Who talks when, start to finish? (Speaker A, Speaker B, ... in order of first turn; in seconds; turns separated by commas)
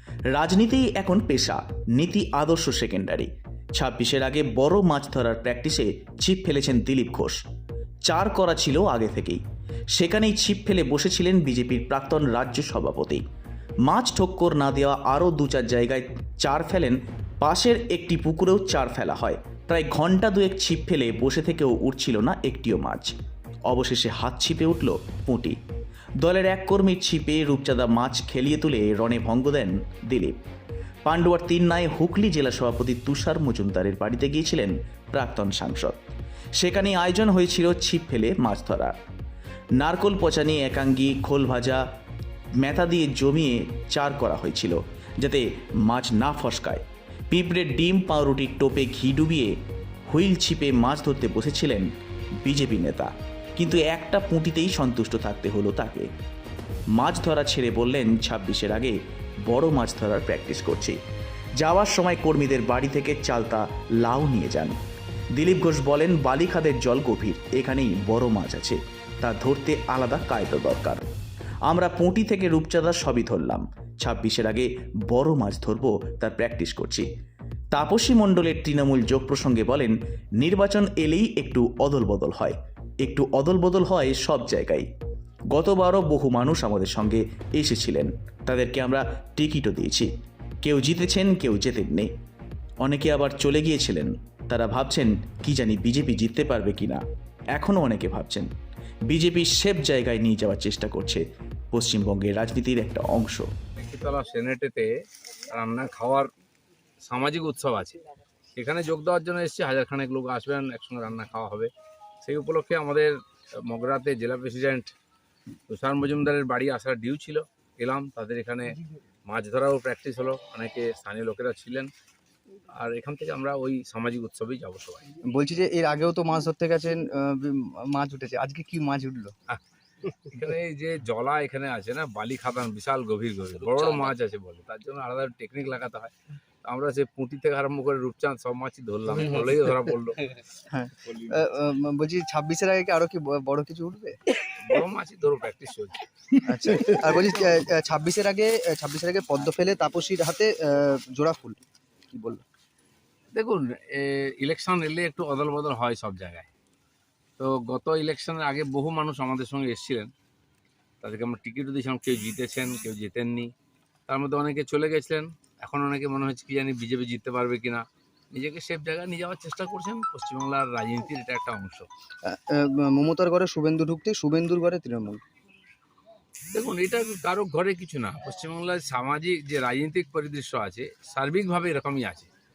Speaker A: 0.3-7.4, Speaker A: 8.1-9.4, Speaker A: 9.9-13.2, Speaker A: 13.8-23.1, Speaker A: 23.7-25.6, Speaker A: 26.2-30.4, Speaker A: 31.1-36.0, Speaker A: 36.6-39.0, Speaker A: 39.8-41.8, Speaker A: 42.6-49.5, Speaker A: 50.1-51.9, Speaker A: 52.4-56.1, Speaker A: 56.9-61.0, Speaker A: 61.6-64.8, Speaker A: 65.3-71.0, Speaker A: 71.7-77.1, Speaker A: 77.7-84.9, Speaker A: 85.5-90.1, Speaker A: 90.6-92.1, Speaker A: 92.8-97.0, Speaker A: 97.5-98.5, Speaker A: 99.1-103.5, Speaker B: 103.8-104.9, Speaker B: 105.5-106.3, Speaker B: 107.1-108.0, Speaker B: 108.5-111.7, Speaker B: 112.2-114.9, Speaker B: 115.7-121.9, Speaker B: 122.7-125.0, Speaker C: 125.2-129.3, Speaker B: 130.1-136.1, Speaker B: 136.6-140.3, Speaker C: 140.7-144.2, Speaker B: 144.6-146.0, Speaker C: 146.4-151.6, Speaker C: 152.1-152.4, Speaker B: 153.3-156.5, Speaker B: 157.4-160.1, Speaker B: 161.0-163.5, Speaker B: 164.1-171.9, Speaker C: 172.2-175.2, Speaker B: 176.5-182.3